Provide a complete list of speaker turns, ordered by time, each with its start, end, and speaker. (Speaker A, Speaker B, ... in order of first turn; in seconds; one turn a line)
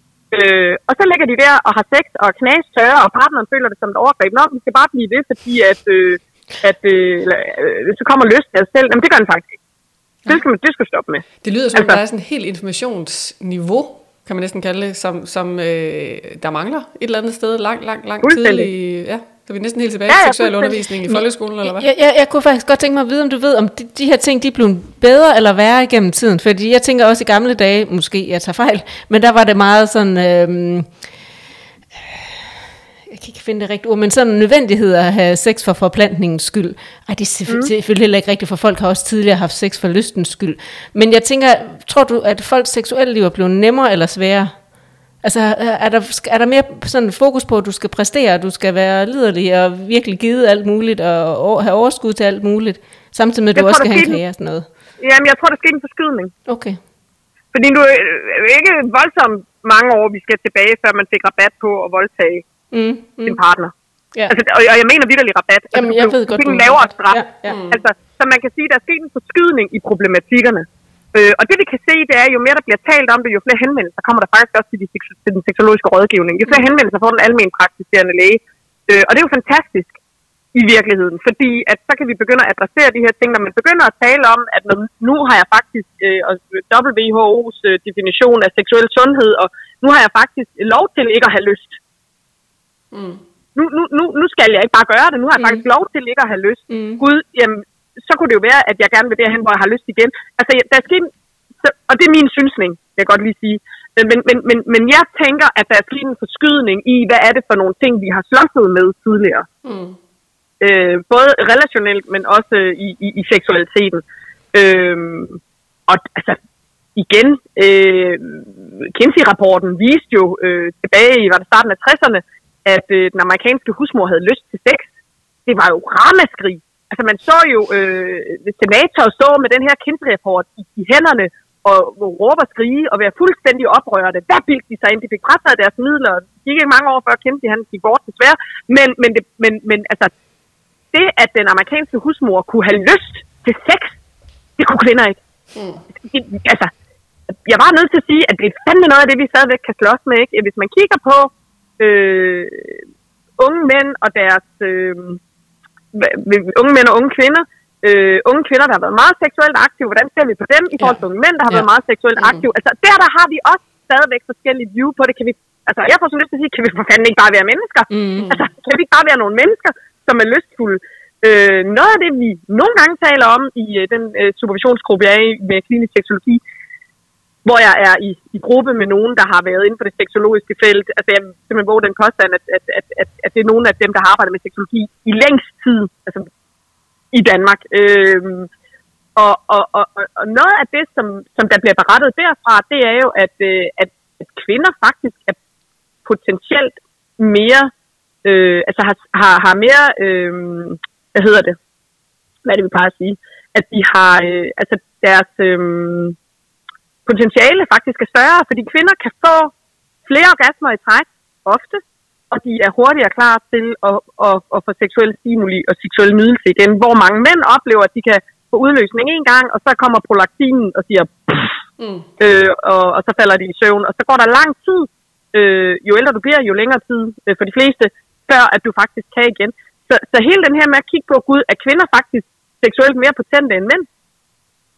Speaker A: 0.3-9.5
Speaker A: 10.3-12.0
Speaker B: 11.4-21.9
Speaker A: 18.2-18.7
Speaker A: 20.1-20.8
Speaker C: 21.1-31.0
Speaker C: 31.9-44.6
Speaker C: 45.2-54.6
Speaker A: 53.5-54.2
Speaker A: 55.0-56.3
Speaker C: 56.5-56.8
Speaker A: 57.5-62.5
Speaker C: 62.7-63.4
Speaker A: 63.2-63.7
Speaker A: 64.3-80.0
Speaker C: 65.7-67.6
Speaker B: 67.5-67.8
Speaker A: 80.5-91.8
Speaker B: 92.9-93.2
Speaker A: 93.5-101.1
Speaker C: 95.4-95.6
Speaker C: 96.7-97.0
Speaker A: 101.6-109.5
Speaker B: 109.6-110.0
Speaker A: 110.6-116.4
Speaker A: 117.0-124.9
Speaker A: 125.5-140.1
Speaker A: 140.9-144.0
Speaker A: 144.6-145.2
Speaker B: 145.5-145.8
Speaker A: 146.1-146.7
Speaker A: 147.3-152.8
Speaker A: 153.4-155.2
Speaker A: 155.9-176.4
Speaker B: 162.2-162.5
Speaker C: 167.9-168.3
Speaker B: 168.2-168.4
Speaker A: 177.4-186.3
Speaker A: 187.1-188.5
Speaker A: 189.2-195.4
Speaker A: 196.1-197.7
Speaker A: 198.2-201.6
Speaker A: 202.4-206.2
Speaker A: 207.1-209.5
Speaker A: 210.1-221.6
Speaker B: 221.8-222.1
Speaker A: 222.2-233.9